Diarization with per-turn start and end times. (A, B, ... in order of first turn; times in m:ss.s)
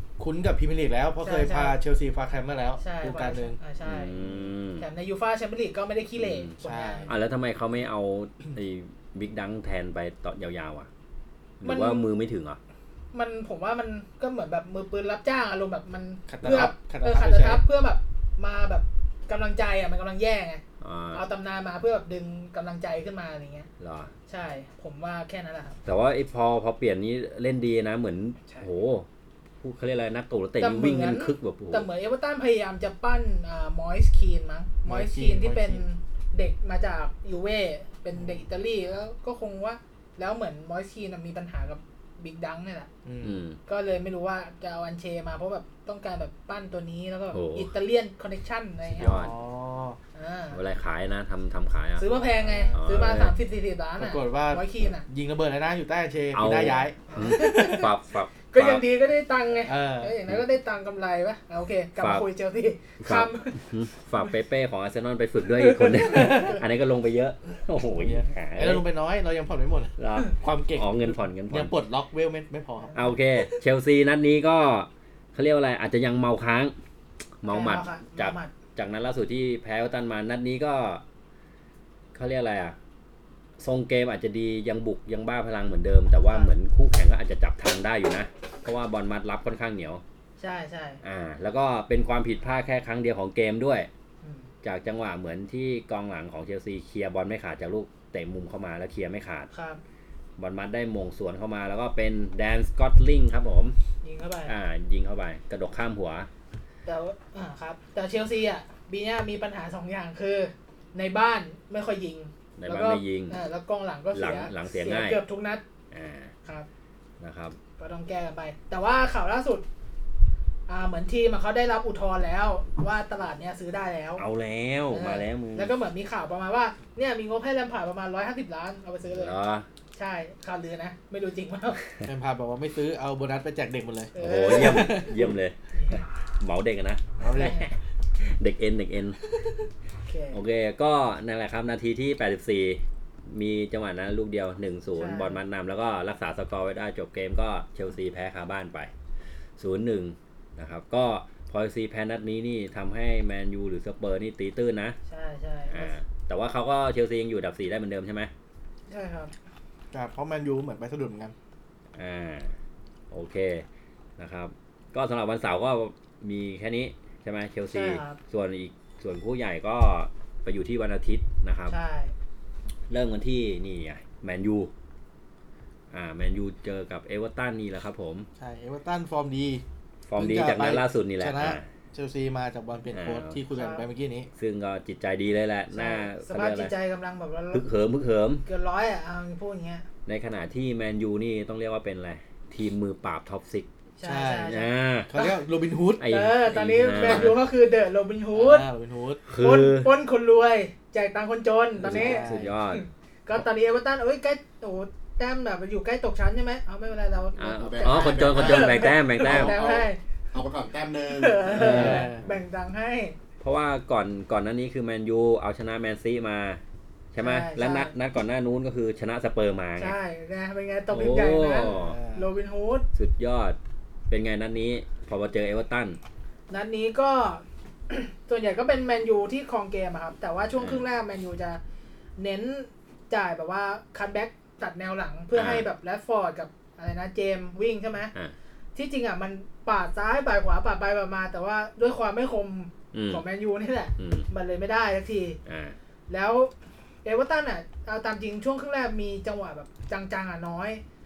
0:00.2-0:03.6 A
0:01.2-0:01.8 B
0:02.8-0:04.2 B
0:03.8-0:04.8 C
0:04.8-0:07.1 B
0:06.2-0:06.5 C
0:06.6-0:07.1 A
0:07.1-0:10.9 C
0:11.6-0:12.6 C
0:11.6-0:12.1 B
0:13.1-0:23.7 B
0:16.3-0:17.6 A
0:20.8-0:21.2 C
0:23.8-0:24.1 C
0:24.3-0:25.8 B
0:25.8-0:29.1 C
0:29.6-0:31.9 C
0:30.6-0:42.9 B
0:34.8-0:35.8 A
0:38.1-0:38.4 A
0:43.0-0:43.4 A
0:43.2-0:43.6 C
0:43.6-0:49.2 B
0:47.3-0:47.7 C
0:48.9-0:49.3 C
0:49.0-0:50.0 A
0:50.1-0:50.6 B
0:50.5-0:52.0 C
0:52.0-0:55.1 B
0:52.3-0:52.8 A
0:52.7-0:53.3 C
0:54.0-0:57.8 A
0:56.3-0:58.8 C
0:57.1-0:57.9 B
0:58.5-1:03.7 B
0:59.6-1:00.2 A
1:02.0-1:02.3 C
1:03.0-1:08.8 C
1:05.6-1:06.6 B
1:07.9-1:13.0 A
1:10.0-1:11.7 C
1:12.8-1:13.1 B
1:12.9-1:16.7 C
1:17.4-1:21.0 C
1:17.5-1:18.5 B
1:22.1-1:22.8 C
1:23.6-1:30.0 C
1:26.2-1:26.5 B
1:30.4-1:31.0 B
1:31.0-1:33.9 C
1:34.2-1:34.5 B
1:34.6-1:39.5 C
1:39.5-1:39.8 B
1:40.4-1:43.8 C
1:44.0-1:44.5 B
1:44.4-1:46.3 C
1:46.8-1:55.6 B
1:52.6-1:53.4 C
1:54.1-1:55.2 C
1:55.9-1:56.3 C
1:57.2-1:57.6 C
1:57.8-1:59.6 B
2:00.7-2:04.2 B
2:04.2-2:05.7 C
2:04.9-2:09.4 B
2:09.1-2:09.7 C
2:09.9-2:11.8 B
2:12.0-2:15.1 A
2:14.1-2:15.1 B
2:14.2-2:17.1 C
2:15.7-2:16.0 B
2:17.2-2:17.6 A
2:17.3-2:17.7 B
2:18.2-2:19.2 C
2:20.0-2:20.4 B
2:20.3-2:28.9 C
2:24.9-2:25.4 B
2:29.6-2:35.0 C
2:35.1-2:35.9 B
2:35.7-2:38.3 C
2:38.9-2:39.3 B
2:39.9-2:41.3 A
2:42.0-2:42.5 C
2:43.1-2:43.6 C
2:44.2-2:51.8 C
2:47.7-2:48.2 B
2:51.7-2:52.1 B
2:52.9-2:54.7 C
2:55.9-2:58.3 C
2:58.4-2:59.6 A
3:00.1-3:01.6 C
3:00.2-3:04.3 A
3:02.9-3:03.4 C
3:03.5-3:03.8 B
3:04.4-3:06.7 C
3:05.7-3:07.6 B
3:07.5-3:08.4 C
3:08.4-3:09.8 B
3:10.0-3:13.7 C
3:14.0-3:15.4 B
3:14.0-3:16.1 A
3:14.5-3:15.1 C
3:16.0-3:17.4 C
3:16.0-3:18.7 B
3:17.0-3:17.3 A
3:18.3-3:19.2 A
3:19.3-3:19.9 C
3:19.3-3:30.0 B
3:21.8-3:22.5 A
3:21.8-3:22.8 C
3:27.4-3:29.6 C
3:27.6-3:32.0 D
3:31.1-3:33.2 B
3:31.5-3:32.1 C
3:31.5-3:32.3 A
3:33.4-3:36.6 C
3:37.1-3:40.0 C
3:37.2-3:37.9 B
3:39.8-3:42.9 B
3:40.9-3:42.0 C
3:41.6-3:42.3 A
3:42.9-3:43.6 C
3:44.1-3:46.0 C
3:46.5-3:51.6 B
3:52.2-3:58.1 B
3:55.3-3:55.6 C
3:58.7-4:05.4 B
4:02.9-4:03.2 C
4:04.0-4:04.3 C
4:05.4-4:05.8 C
4:06.1-4:06.5 B
4:07.0-4:10.8 B